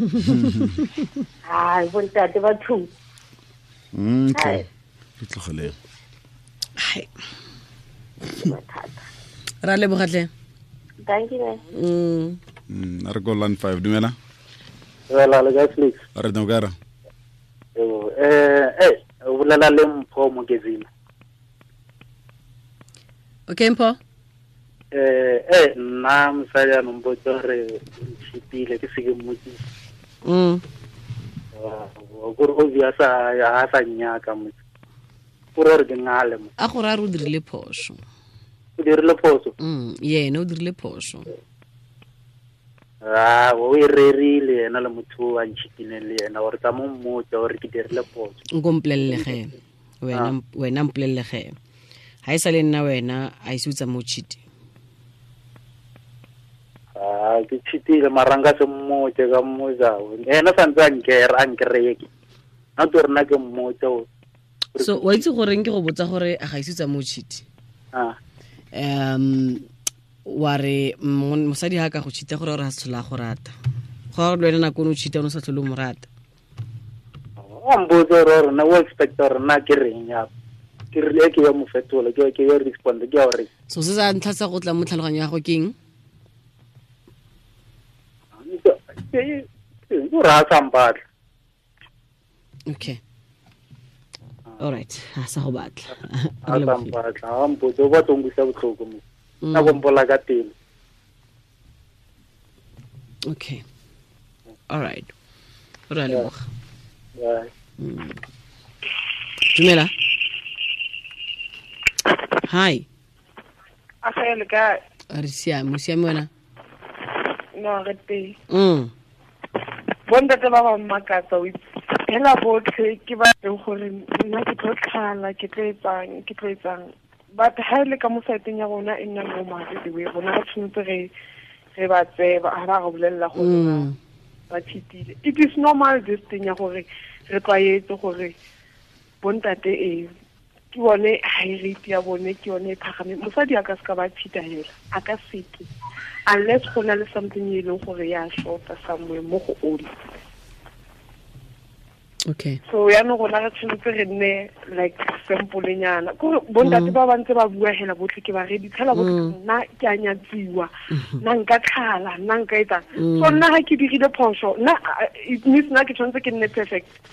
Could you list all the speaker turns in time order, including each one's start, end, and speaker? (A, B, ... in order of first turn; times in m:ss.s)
0:00.3-0:00.7 A
0:01.4-0:02.9 B
0:03.9-0:04.6 A
0:04.3-0:04.7 B
0:05.2-0:05.8 A
0:06.8-0:07.1 C
0:08.3-0:09.1 B
0:09.6-0:10.3 C
0:11.0-0:11.6 B
0:11.7-0:12.4 C
0:12.7-0:14.1 A
0:15.1-0:16.0 D
0:16.1-0:16.7 A
0:17.8-0:20.9 D
0:23.5-0:24.0 C
0:24.9-0:29.6 D
0:30.2-0:30.6 C
0:31.5-0:34.5 D
0:35.6-0:36.5 D
0:36.6-0:38.0 C
0:38.8-0:39.5 D
0:39.6-0:41.3 C
0:43.0-0:48.4 D
0:48.5-0:51.6 C
0:52.2-0:54.4 C
0:57.0-1:02.1 D
1:02.8-1:04.0 D
1:04.8-1:05.0 D
1:04.8-1:07.4 C
1:08.7-1:09.6 C
1:10.3-1:13.5 C
1:14.1-1:16.1 C
1:17.4-1:20.3 D
1:20.9-1:23.5 D
1:23.7-1:25.8 C
1:28.4-1:31.0 D
1:32.7-1:33.0 C
1:34.6-1:36.9 C
1:36.5-1:39.0 D
1:39.4-1:39.8 C
1:39.5-1:40.5 D
1:43.3-1:43.6 C
1:44.7-1:45.1 C
1:45.9-1:46.4 C
1:47.2-1:47.5 D
1:47.8-1:48.2 C
1:49.5-1:49.9 C
1:52.4-1:52.9 C
1:54.0-1:54.8 E
1:55.1-1:56.3 C
1:57.6-1:58.3 E
1:58.5-1:58.9 C
2:00.1-2:11.1 E
2:11.7-2:13.9 E
2:13.4-2:14.0 C
2:14.5-2:18.3 E
2:19.2-2:20.1 E
2:20.7-2:25.7 E
2:26.3-2:29.9 E
2:32.3-2:32.6 C
2:32.6-2:46.9 E
2:36.6-2:36.9 C
2:38.9-2:39.3 C
2:40.9-2:41.2 C
2:43.0-2:43.4 C